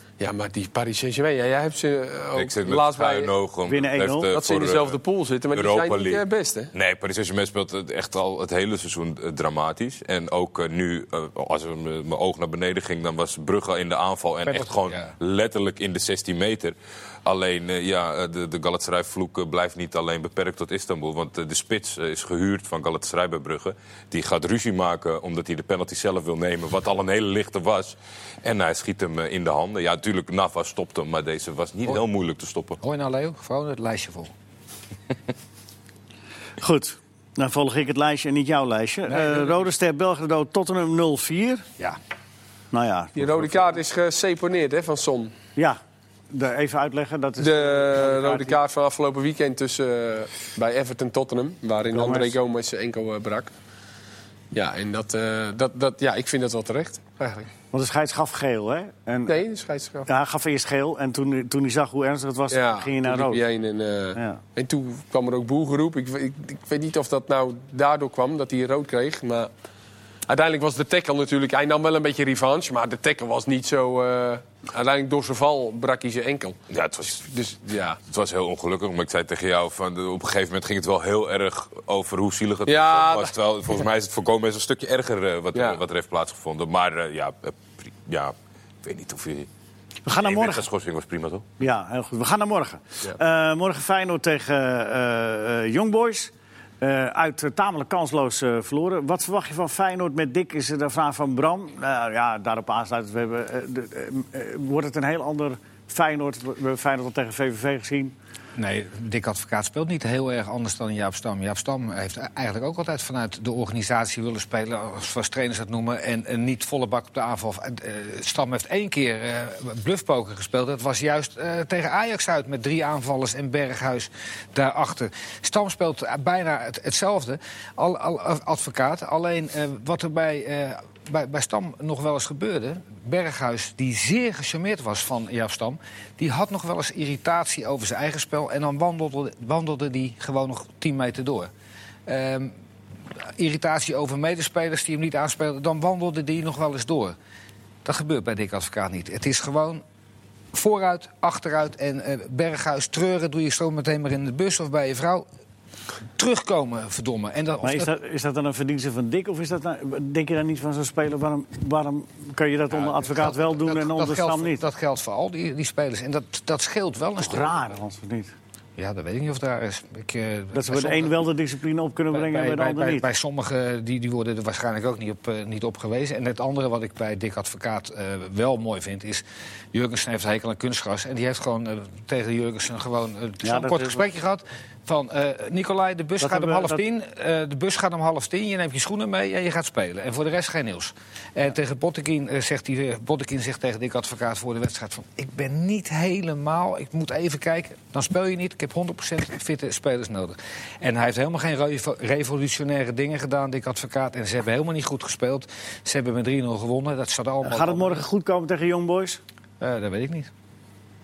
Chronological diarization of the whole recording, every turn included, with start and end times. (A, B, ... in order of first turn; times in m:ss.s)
0:00.2-0:03.3 A
0:02.3-0:05.0 B
0:03.7-0:04.3 C
0:04.3-0:06.7 A
0:05.5-0:32.8 B
0:14.4-0:15.1 D
0:32.8-0:34.3 D
0:36.6-0:41.6 C
0:39.1-0:39.5 D
0:42.7-0:43.7 C
0:43.2-0:45.3 A
0:46.3-0:48.6 C
0:47.4-0:53.5 A
0:51.9-0:52.4 C
0:54.5-0:57.5 A
0:57.7-0:59.4 C
0:59.3-1:00.1 A
1:00.1-1:03.4 C
1:02.5-1:09.5 A
1:10.3-1:16.6 A
1:16.7-1:29.5 B
1:17.2-1:18.0 A
1:22.7-1:23.3 A
1:25.5-1:25.8 A
1:30.0-1:30.6 C
1:30.2-1:31.4 B
1:31.6-1:48.1 C
1:48.6-2:21.5 D
2:22.1-2:22.5 D
2:23.4-2:27.1 D
2:27.8-2:29.8 D
2:30.5-2:35.2 D
2:36.2-2:37.9 D
2:37.6-2:44.6 C
2:43.1-2:47.5 D
2:47.2-2:48.3 C
2:48.8-2:51.2 D
2:50.5-2:53.0 C
2:52.1-3:28.0 D
3:03.4-3:04.0 C
3:06.2-3:06.8 C
3:27.4-3:29.2 C
3:29.6-3:30.3 D